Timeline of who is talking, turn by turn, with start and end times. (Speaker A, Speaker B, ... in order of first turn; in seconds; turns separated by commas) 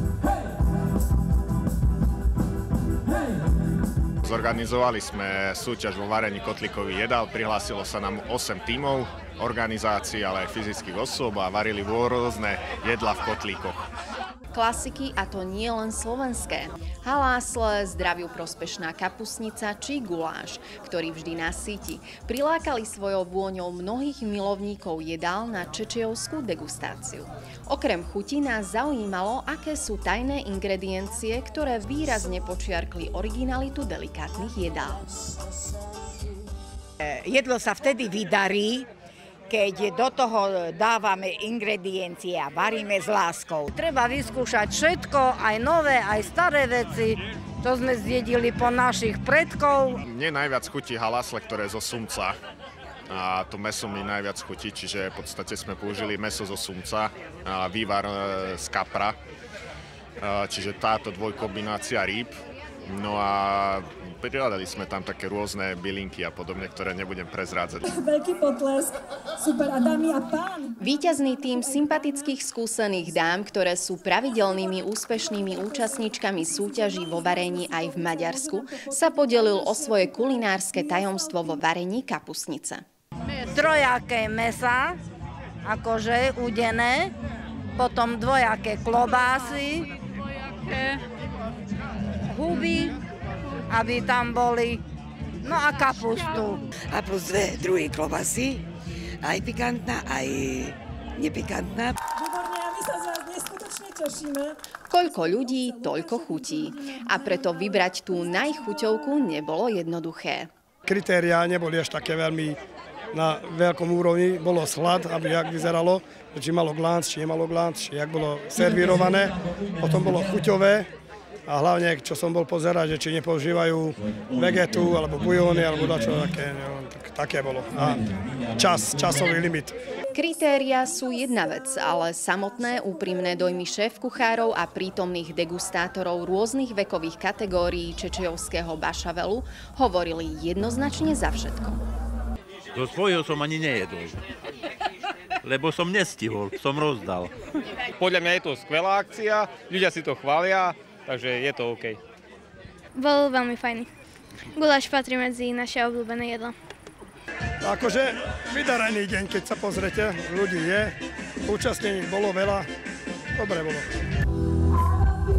Speaker A: 4.2-13.8, Speaker B: 14.5-35.0, Speaker C: 37.0-38.9, Speaker C: 39.5-50.0, Speaker A: 50.0-52.3, Speaker A: 53.1-59.1, Speaker A: 60.2-62.3, Speaker A: 62.9-67.9, Speaker D: 67.9-70.7, Speaker B: 70.8-82.8, Speaker D: 77.2-80.4, Speaker C: 83.4-85.0, Speaker C: 85.6-87.1, Speaker C: 87.8-89.9, Speaker C: 92.2-93.0, Speaker C: 93.7-94.8, Speaker C: 95.4-96.6, Speaker E: 96.9-98.6, Speaker E: 99.2-101.9, Speaker D: 102.2-104.6, Speaker B: 104.9-110.5, Speaker D: 105.3-107.0, Speaker F: 110.9-112.6, Speaker F: 113.1-120.9, Speaker F: 121.5-129.8, Speaker B: 130.1-141.8, Speaker G: 142.7-144.2, Speaker G: 145.4-147.3, Speaker H: 148.0-152.0, Speaker I: 152.9-153.9, Speaker I: 154.5-156.5, Speaker F: 157.6-160.9, Speaker F: 161.4-162.7, Speaker F: 163.3-163.9